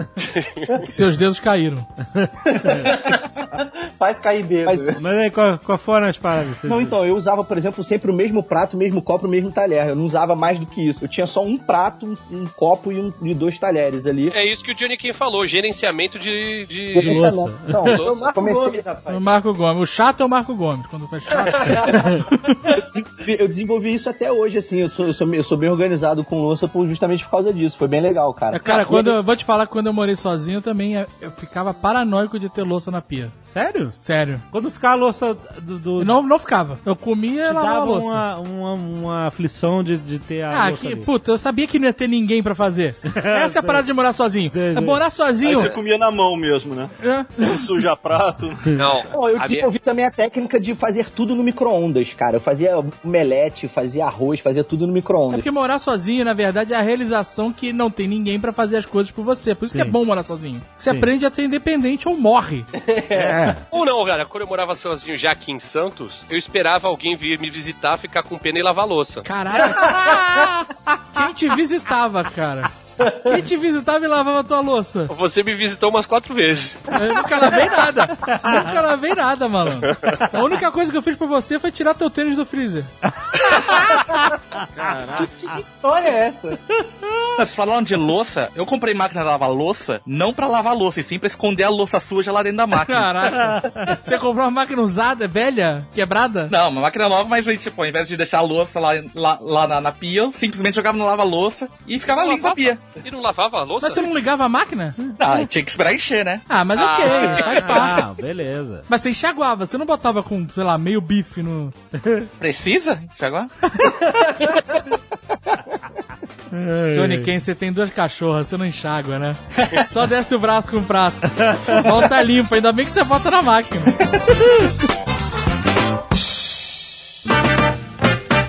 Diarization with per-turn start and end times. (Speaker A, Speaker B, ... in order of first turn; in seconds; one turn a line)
Speaker A: 0.2-0.7
Speaker B: 0.8-1.9
Speaker C: 2.1-3.0
Speaker D: 2.4-5.0
Speaker E: 4.7-5.0
Speaker C: 5.0-7.0
Speaker E: 6.6-14.3
Speaker A: 14.3-17.2
Speaker E: 16.9-18.8
Speaker C: 17.0-17.9
Speaker A: 17.8-18.4
Speaker D: 18.0-19.2
Speaker B: 19.1-22.2
Speaker D: 21.5-21.8
Speaker E: 21.6-29.2
Speaker C: 21.9-22.2
Speaker B: 28.5-33.3
Speaker C: 33.5-34.0
Speaker B: 34.0-34.4
Speaker C: 34.5-36.2
Speaker B: 36.0-38.2
Speaker C: 37.4-41.1
Speaker B: 40.5-45.7
Speaker C: 43.1-43.8
Speaker C: 44.5-45.0
Speaker F: 45.4-48.9
Speaker B: 47.0-47.3
Speaker A: 48.8-49.6
Speaker E: 49.1-55.5
Speaker B: 55.3-62.7
Speaker D: 62.7-63.6
Speaker C: 63.1-63.6
Speaker A: 63.7-69.2
Speaker B: 69.2-70.2
Speaker D: 69.6-70.2
Speaker C: 69.8-70.7
Speaker B: 71.1-75.1
Speaker D: 73.0-73.4
Speaker A: 75.1-76.9
Speaker B: 76.9-82.9
Speaker D: 77.2-77.7
Speaker C: 78.2-78.8
Speaker C: 83.3-84.1
Speaker F: 84.6-85.5
Speaker D: 85.2-86.6
Speaker G: 87.3-93.5
Speaker B: 92.8-96.5
Speaker C: 93.5-93.9
Speaker G: 96.5-102.8
Speaker A: 102.0-104.3
Speaker B: 103.8-105.0
Speaker G: 105.2-106.4
Speaker B: 106.5-108.0
Speaker A: 106.7-107.9
Speaker C: 107.3-108.8
Speaker B: 108.9-111.7
Speaker C: 112.0-112.2
Speaker G: 112.4-113.5
Speaker D: 114.0-114.6
Speaker C: 116.5-117.3
Speaker B: 116.9-124.1